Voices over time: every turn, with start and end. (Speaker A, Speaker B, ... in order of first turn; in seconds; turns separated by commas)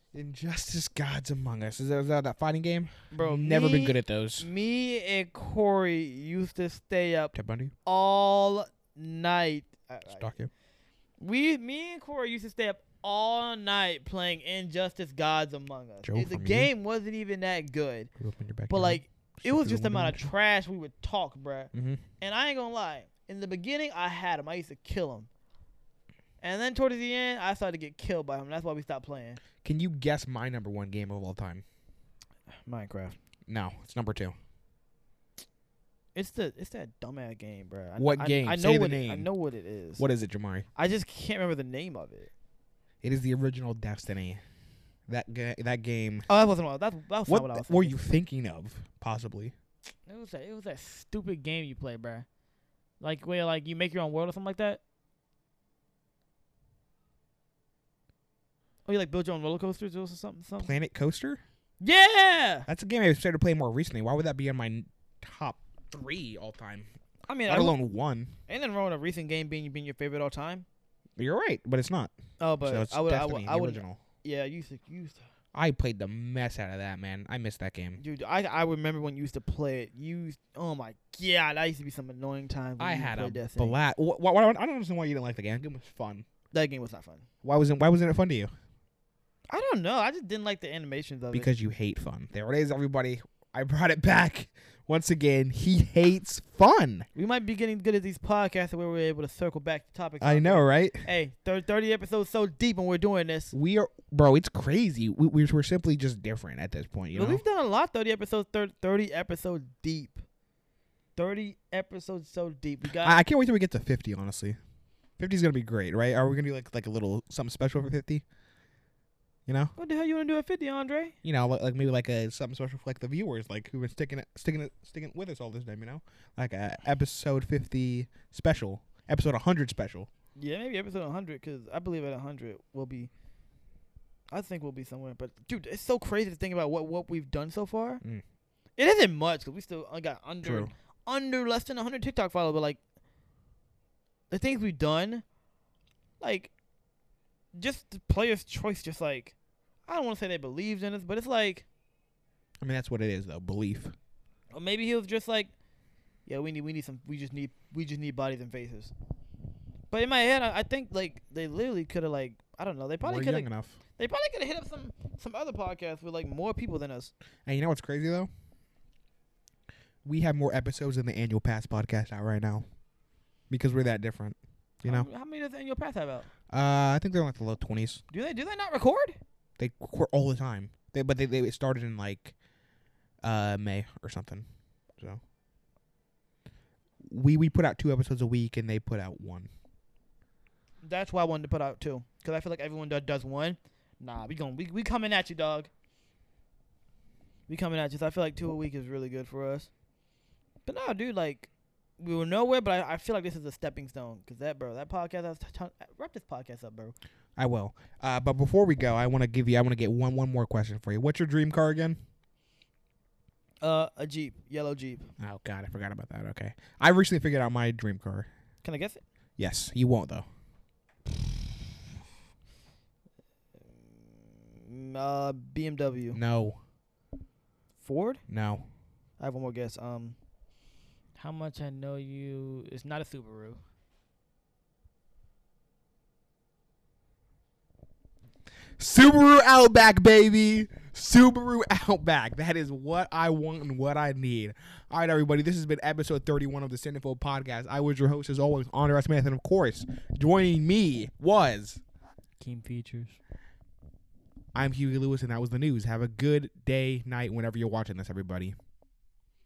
Speaker A: 0.1-4.5, Speaker B: 3.1-7.3, Speaker A: 7.3-7.7, Speaker B: 7.8-10.3, Speaker A: 10.1-10.5, Speaker B: 11.2-18.1, Speaker A: 16.0-16.7, Speaker A: 18.2-20.3, Speaker B: 18.7-25.3, Speaker A: 21.7-22.0, Speaker B: 26.4-29.4, Speaker A: 29.6-31.6, Speaker B: 32.6-33.2, Speaker A: 33.5-34.4, Speaker B: 36.1-40.0, Speaker A: 38.0-39.3, Speaker A: 40.0-40.7, Speaker B: 40.8-42.3, Speaker A: 43.0-44.4, Speaker A: 45.1-46.3, Speaker B: 46.3-48.0, Speaker A: 47.3-49.5, Speaker B: 50.0-52.2, Speaker B: 53.0-54.8, Speaker B: 58.9-60.7, Speaker A: 60.6-61.4, Speaker B: 61.8-62.7, Speaker A: 62.7-66.9, Speaker B: 67.3-67.8, Speaker A: 67.5-68.4, Speaker B: 68.5-70.7, Speaker A: 71.2-74.0, Speaker B: 72.4-75.2, Speaker A: 75.5-78.0, Speaker B: 78.0-83.8, Speaker A: 82.8-86.2, Speaker B: 86.5-87.3, Speaker A: 87.4-88.5, Speaker B: 89.5-91.5, Speaker A: 91.3-97.1, Speaker B: 97.1-103.5, Speaker A: 100.2-101.0, Speaker A: 103.5-107.4, Speaker B: 107.1-110.2, Speaker B: 111.2-113.2, Speaker A: 113.0-114.6, Speaker A: 115.2-118.2, Speaker A: 119.5-119.7, Speaker B: 119.8-121.2, Speaker A: 121.2-130.1, Speaker B: 130.3-133.1, Speaker B: 134.3-138.0, Speaker B: 138.8-142.8, Speaker A: 140.4-140.7, Speaker B: 144.3-145.2, Speaker B: 146.2-146.5, Speaker B: 147.5-149.3, Speaker B: 149.9-151.7, Speaker A: 152.6-153.9, Speaker B: 154.5-155.5, Speaker B: 156.2-158.9, Speaker B: 159.9-167.1, Speaker A: 163.0-163.8, Speaker A: 167.4-168.3, Speaker A: 170.0-172.7, Speaker A: 173.5-175.1, Speaker B: 174.8-176.3, Speaker A: 176.5-178.0, Speaker B: 178.1-179.2, Speaker A: 179.6-182.3, Speaker A: 183.2-184.5, Speaker A: 187.0-189.5, Speaker B: 190.8-195.7, Speaker B: 197.5-199.7, Speaker B: 200.7-206.9, Speaker A: 207.4-212.0, Speaker B: 213.6-215.1, Speaker A: 215.2-218.3, Speaker B: 218.6-219.0, Speaker A: 219.4-220.2, Speaker B: 223.6-226.2, Speaker A: 226.1-226.6, Speaker B: 227.8-228.2, Speaker A: 228.3-228.7, Speaker B: 229.2-230.2, Speaker B: 231.2-233.6, Speaker A: 238.8-251.8, Speaker B: 252.4-253.2, Speaker A: 254.5-258.5